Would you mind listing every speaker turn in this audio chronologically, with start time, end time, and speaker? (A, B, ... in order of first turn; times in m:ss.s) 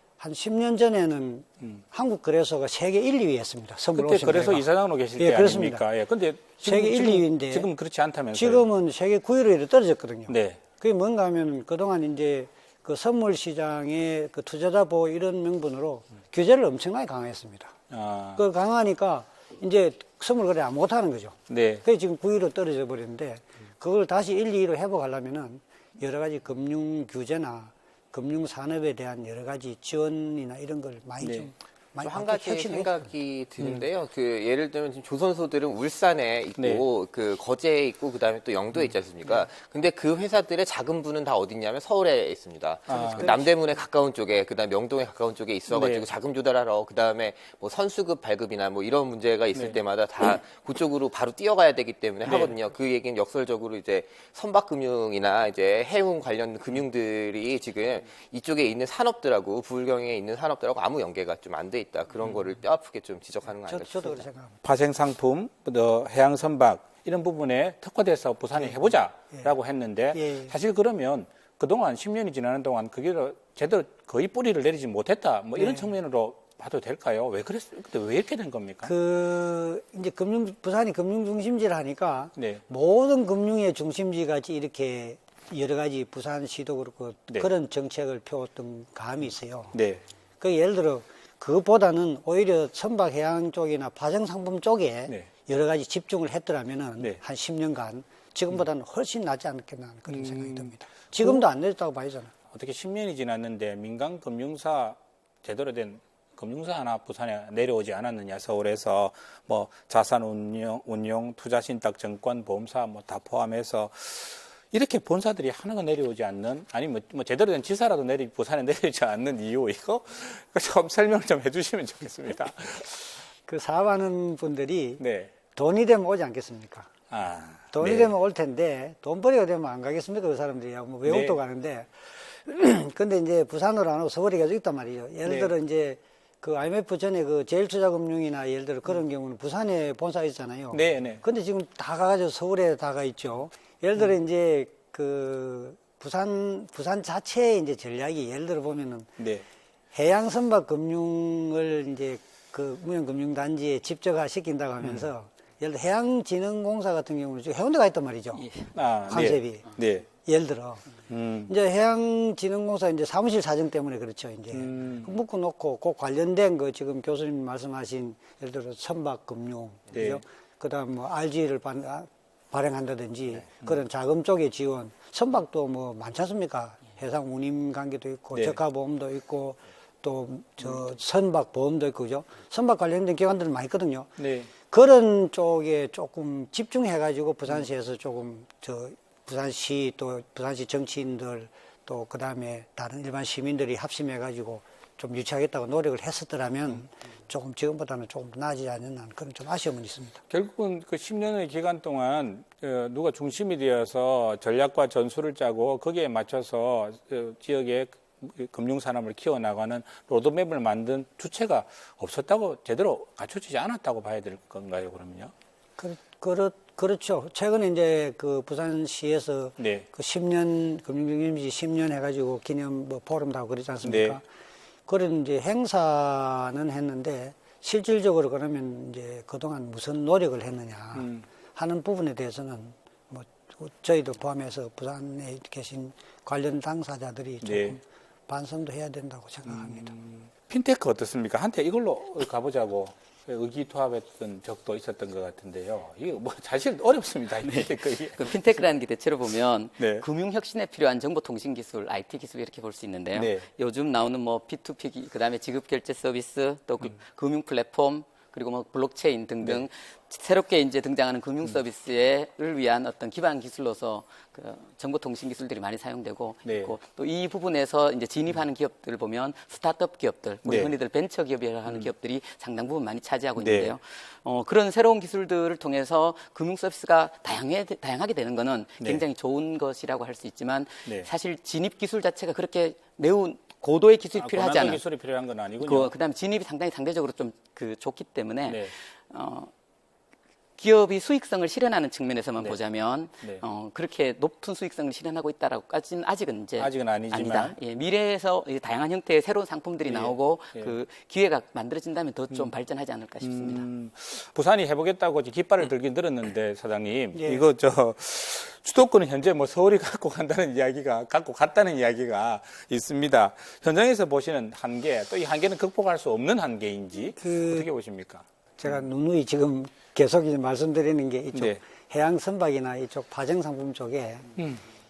0:00.2-0:05.8 A
0:03.9-0:08.7 B
0:06.6-0:07.7 A
0:08.3-0:17.7 A
0:10.3-0:10.7 B
0:17.9-0:18.4 B
0:18.4-0:33.1 A
0:21.5-0:21.8 B
0:31.2-0:31.5 B
0:32.0-1:04.3 C
0:33.6-0:33.8 B
0:36.6-0:36.8 B
0:42.9-0:43.3 B
0:42.9-0:43.5 A
0:45.7-0:46.0 B
0:49.5-0:49.8 B
0:52.2-0:52.5 B
1:03.6-1:04.6 A
1:04.6-1:18.9 B
1:08.5-1:09.5 A
1:10.1-1:10.5 A
1:15.6-1:15.9 A
1:18.8-1:29.8 A
1:22.4-1:22.6 B
1:29.7-1:30.0 B
1:30.4-1:42.3 A
1:40.1-1:41.4 B
1:42.5-2:03.2 B
2:03.4-2:05.0 A
2:05.0-2:05.3 B
2:05.5-2:06.9 A
2:07.1-2:08.1 B
2:07.7-2:29.1 A
2:11.0-2:11.4 B
2:15.2-2:15.5 B
2:20.7-2:21.2 B
2:29.2-2:29.4 B
2:29.9-2:38.5 A
2:34.8-2:35.1 B
2:38.4-2:40.1 B
2:39.1-2:40.9 A
2:41.1-2:41.5 B
2:41.5-3:20.2 A
2:44.5-2:45.1 B
2:49.9-2:50.2 B
3:04.2-3:04.5 B
3:20.3-3:35.3 B
3:35.8-3:44.2 A
3:39.6-3:39.8 B
3:43.8-3:44.2 B
3:44.9-3:59.9 A
3:50.9-3:51.2 B
3:57.4-3:57.8 B
3:59.4-4:08.6 B
4:07.4-4:44.8 D
4:09.8-4:10.0 B
4:13.1-4:13.5 B
4:26.4-4:26.7 B
4:30.4-4:30.7 B
4:33.4-4:33.7 B
4:44.2-4:45.9 B
4:45.6-4:49.5 D
4:48.5-4:48.7 B
4:50.6-5:03.7 D
4:56.6-4:57.6 B
4:59.8-5:00.7 B
5:03.2-5:18.8 B
5:07.1-5:07.4 A
5:17.2-5:17.7 A
5:18.6-5:24.3 A
5:21.3-5:21.6 B
5:24.4-5:24.6 B